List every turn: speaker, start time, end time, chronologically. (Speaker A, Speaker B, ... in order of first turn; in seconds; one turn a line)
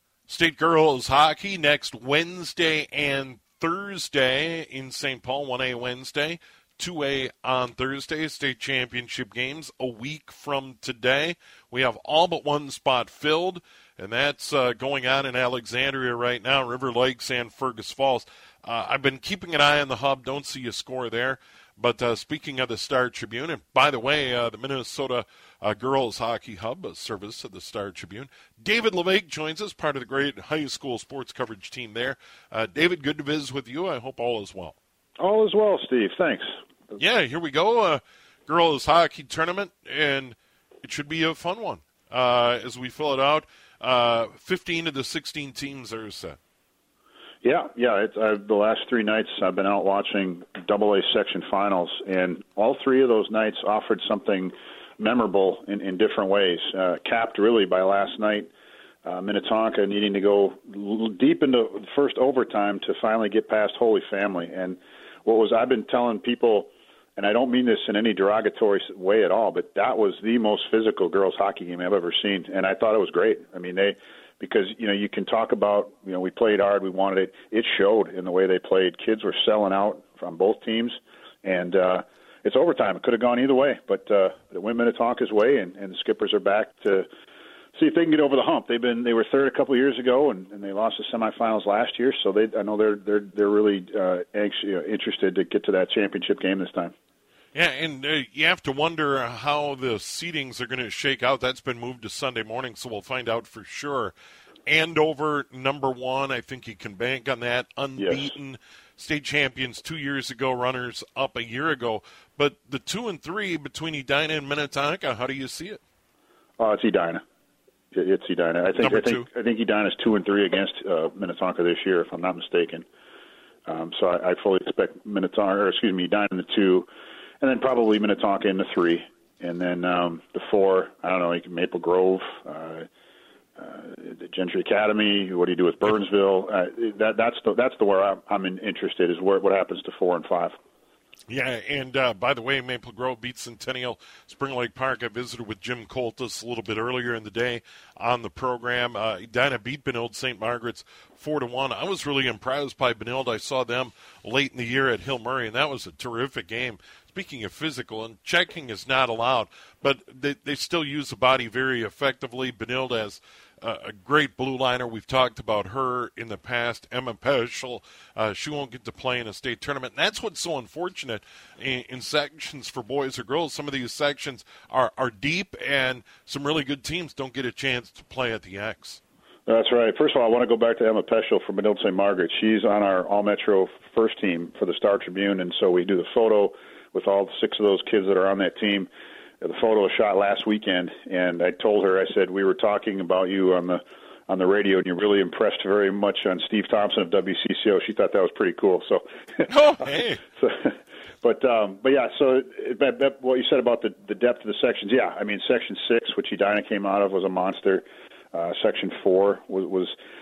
Speaker A: 0.3-34.8
Speaker B: 35.2-36.5
Speaker A: 37.0-46.4
Speaker B: 47.4-58.5
Speaker B: 59.0-87.1
Speaker B: 87.8-96.9
Speaker A: 97.5-104.1
Speaker A: 104.7-115.8
Speaker B: 108.0-108.3
Speaker B: 116.6-117.2
Speaker B: 117.9-122.9
Speaker A: 118.8-119.3
Speaker B: 123.7-126.9
Speaker B: 127.4-132.9
Speaker B: 133.6-140.6
Speaker A: 141.3-179.0
Speaker B: 179.5-188.9
Speaker B: 189.4-199.4
Speaker A: 199.5-200.2
Speaker B: 200.4-209.9